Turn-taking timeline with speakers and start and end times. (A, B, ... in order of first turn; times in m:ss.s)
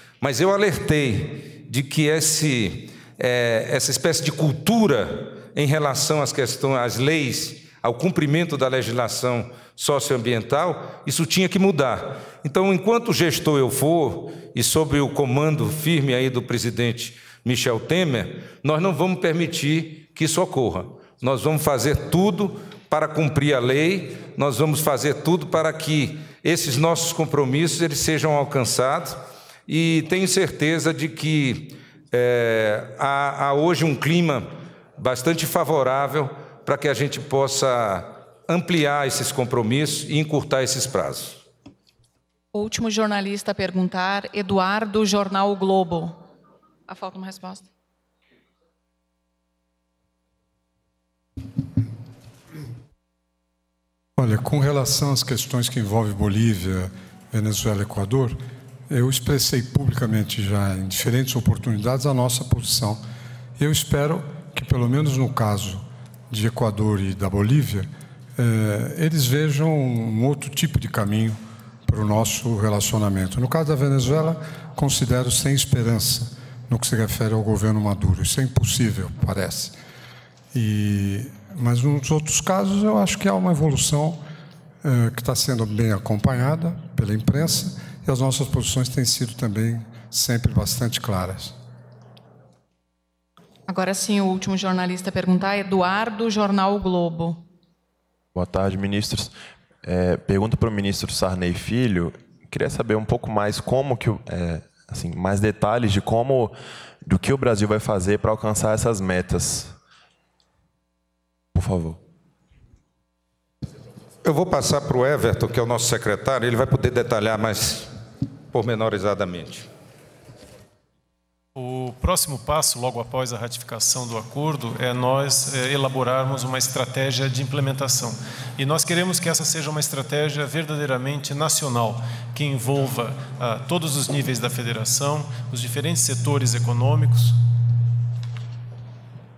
0:00.2-0:34.4 A
0:35.0-0:41.4 A
0:42.5-0:46.2 B
0:46.9-0:47.6 B
0:54.2-0:58.4 C
0:58.9-1:03.0 C
1:03.6-1:19.8 C
1:20.5-1:24.2 C
1:24.8-1:31.5 C
1:33.7-1:37.4 B
1:38.3-1:49.8 D
1:51.5-1:52.0 D
1:54.2-1:57.9 A
1:58.5-1:59.7 A
2:01.6-2:17.4 E